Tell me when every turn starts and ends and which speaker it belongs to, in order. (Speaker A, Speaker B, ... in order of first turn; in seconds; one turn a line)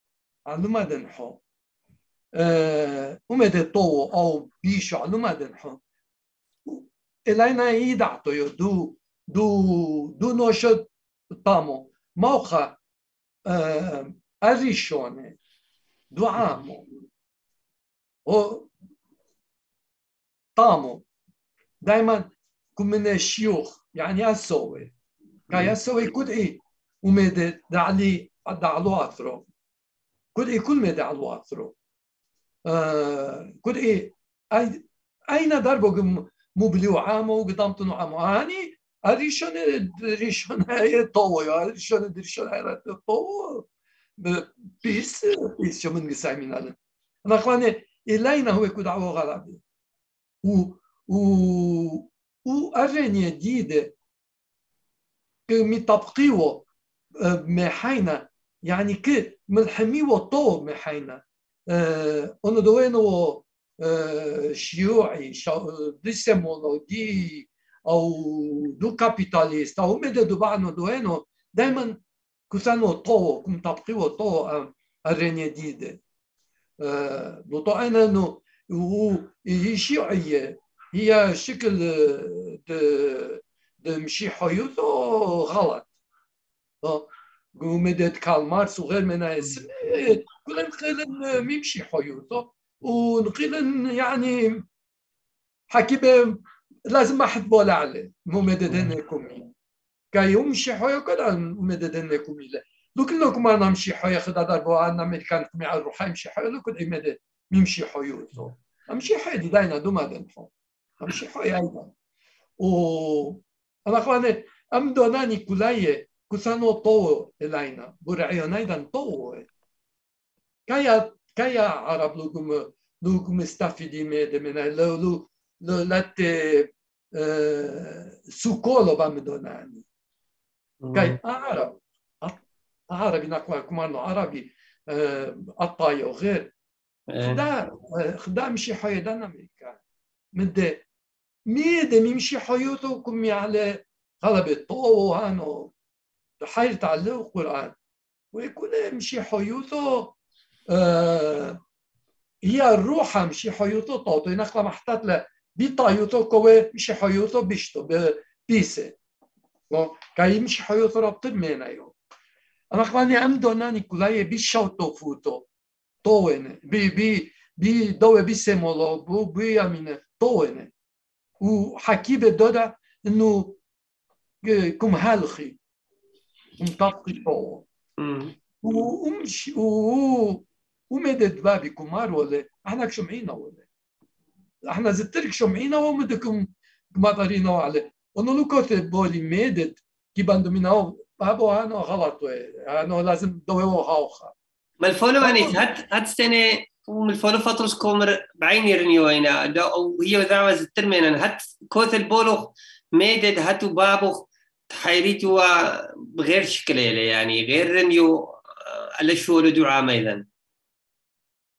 Speaker A: 0.5-1.4
Speaker A: 2.4-5.8
Speaker A: 6.7-12.8
Speaker A: 13.5-15.4
Speaker A: 16.1-16.9
Speaker A: 18.3-18.7
Speaker A: 20.6-21.1
Speaker A: 21.8-24.9
Speaker A: 25.5-29.5
Speaker A: 30.4-31.8
Speaker A: 32.7-43.7
Speaker A: 44.2-49.6
Speaker A: 50.4-53.9
Speaker A: 55.5-56.7
Speaker A: 57.2-72.0
Speaker A: 72.5-76.0
Speaker A: 76.8-85.9
Speaker A: 86.8-94.7
Speaker A: 95.7-99.5
Speaker A: 100.1-111.9
Speaker A: 112.6-119.5
Speaker A: 120.7-129.9
Speaker B: 130.8-131.2
Speaker A: 130.9-136.5
Speaker B: 137.1-137.4
Speaker A: 137.2-139.8
Speaker A: 140.3-140.8
Speaker A: 141.5-145.7
Speaker A: 146.4-147.8
Speaker A: 148.3-150.2
Speaker A: 150.7-151.6
Speaker A: 152.4-159.0
Speaker A: 159.7-161.9
Speaker A: 162.7-165.5
Speaker A: 166.0-170.7
Speaker A: 171.4-173.6
Speaker A: 174.4-175.6
Speaker A: 176.6-177.7
Speaker B: 178.0-178.3
Speaker A: 178.6-183.7
Speaker A: 184.7-194.3
Speaker B: 194.8-210.2
Speaker A: 195.2-195.6